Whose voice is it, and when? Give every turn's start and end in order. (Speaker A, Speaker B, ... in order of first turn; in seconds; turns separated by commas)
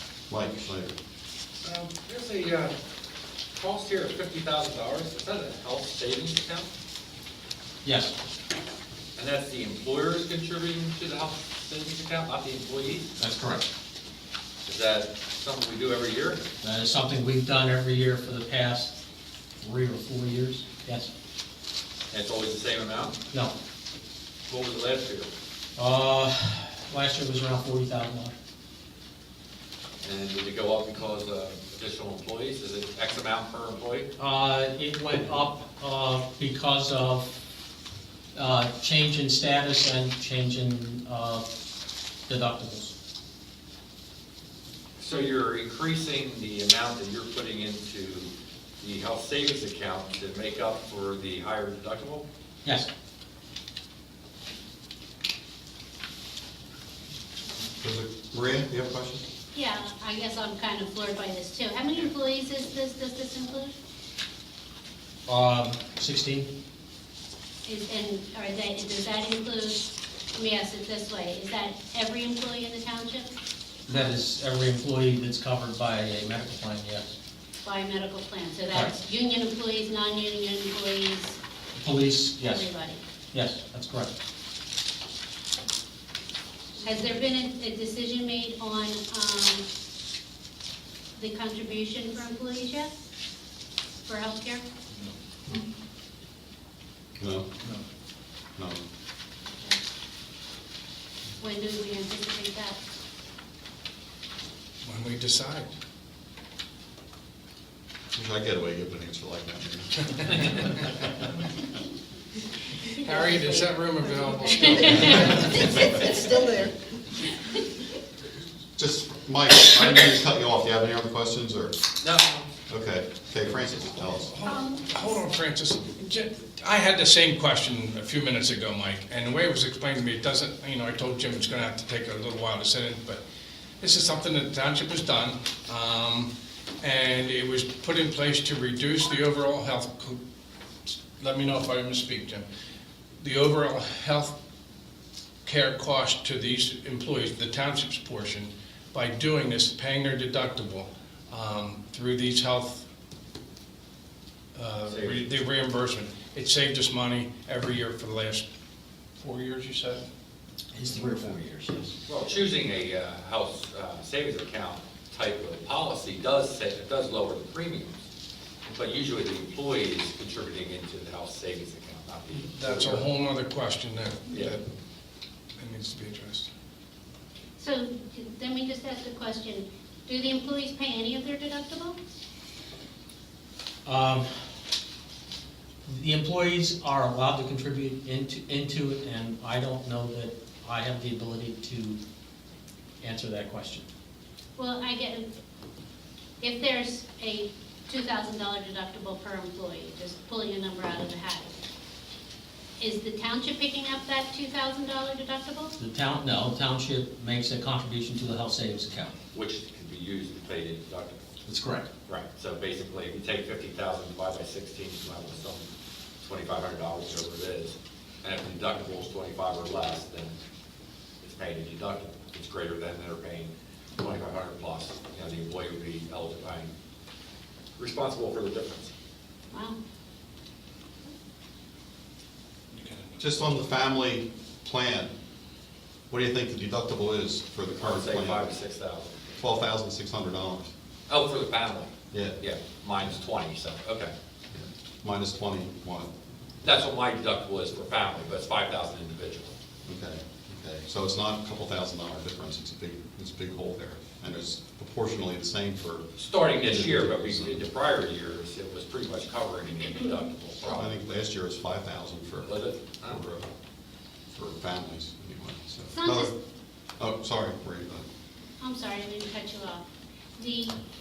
Speaker A: 0.3-0.9, Speaker B: 1.6-2.7, Speaker B: 3.6-6.7, Speaker C: 7.8-8.2, Speaker B: 9.2-13.1, Speaker C: 13.2-13.7, Speaker B: 14.7-16.4, Speaker C: 16.6-19.0, Speaker C: 19.6-21.1, Speaker B: 22.1-23.2, Speaker B: 24.5-25.3, Speaker C: 25.8-28.4, Speaker B: 30.0-34.1, Speaker C: 34.2-37.4, Speaker C: 38.4-41.5, Speaker C: 42.3-42.9, Speaker B: 45.0-52.2, Speaker C: 52.6-52.9, Speaker A: 57.8-59.2, Speaker D: 59.5-63.7, Speaker C: 65.3-66.5, Speaker D: 67.7-73.3, Speaker C: 73.9-77.1, Speaker D: 77.6-81.4, Speaker C: 81.8-82.7, Speaker D: 82.4-83.0, Speaker C: 83.3-84.2, Speaker D: 86.8-89.7, Speaker D: 91.2-92.9, Speaker D: 94.0-94.7, Speaker A: 97.2-97.5, Speaker D: 101.4-102.8, Speaker E: 104.8-105.7, Speaker A: 108.1-110.5, Speaker E: 113.0-115.6, Speaker D: 115.2-115.7, Speaker A: 118.8-121.8, Speaker B: 122.0-122.5, Speaker A: 122.7-124.3, Speaker E: 124.3-133.2, Speaker E: 133.8-140.2, Speaker E: 140.9-142.5, Speaker E: 143.2-144.4, Speaker E: 145.4-152.9, Speaker E: 154.6-158.4, Speaker B: 154.9-155.3, Speaker E: 159.2-160.1, Speaker C: 160.7-161.9, Speaker B: 162.1-168.0, Speaker B: 168.7-173.1, Speaker E: 172.3-174.7, Speaker B: 174.3-174.6, Speaker E: 175.6-176.5, Speaker D: 177.6-182.0, Speaker C: 183.8-184.3, Speaker C: 185.9-192.0, Speaker C: 193.0-193.9, Speaker D: 194.6-195.3, Speaker D: 196.4-201.6, Speaker D: 202.8-205.8, Speaker C: 205.8-209.1, Speaker B: 209.3-211.2, Speaker C: 211.5-211.9, Speaker B: 212.1-215.7, Speaker B: 216.2-220.3, Speaker B: 221.2-226.7, Speaker B: 227.8-228.9, Speaker D: 229.5-229.8, Speaker E: 232.7-233.3, Speaker A: 233.2-235.1, Speaker A: 236.1-238.5, Speaker B: 237.8-239.2, Speaker A: 239.4-240.7, Speaker B: 241.1-244.1, Speaker A: 242.1-242.4, Speaker A: 244.5-246.1, Speaker B: 246.6-249.6, Speaker A: 249.8-257.7, Speaker B: 256.2-261.0, Speaker A: 260.6-263.5, Speaker B: 262.4-263.2, Speaker A: 264.3-266.4, Speaker D: 265.9-266.4, Speaker A: 267.0-268.1, Speaker D: 268.6-269.8, Speaker D: 270.4-270.8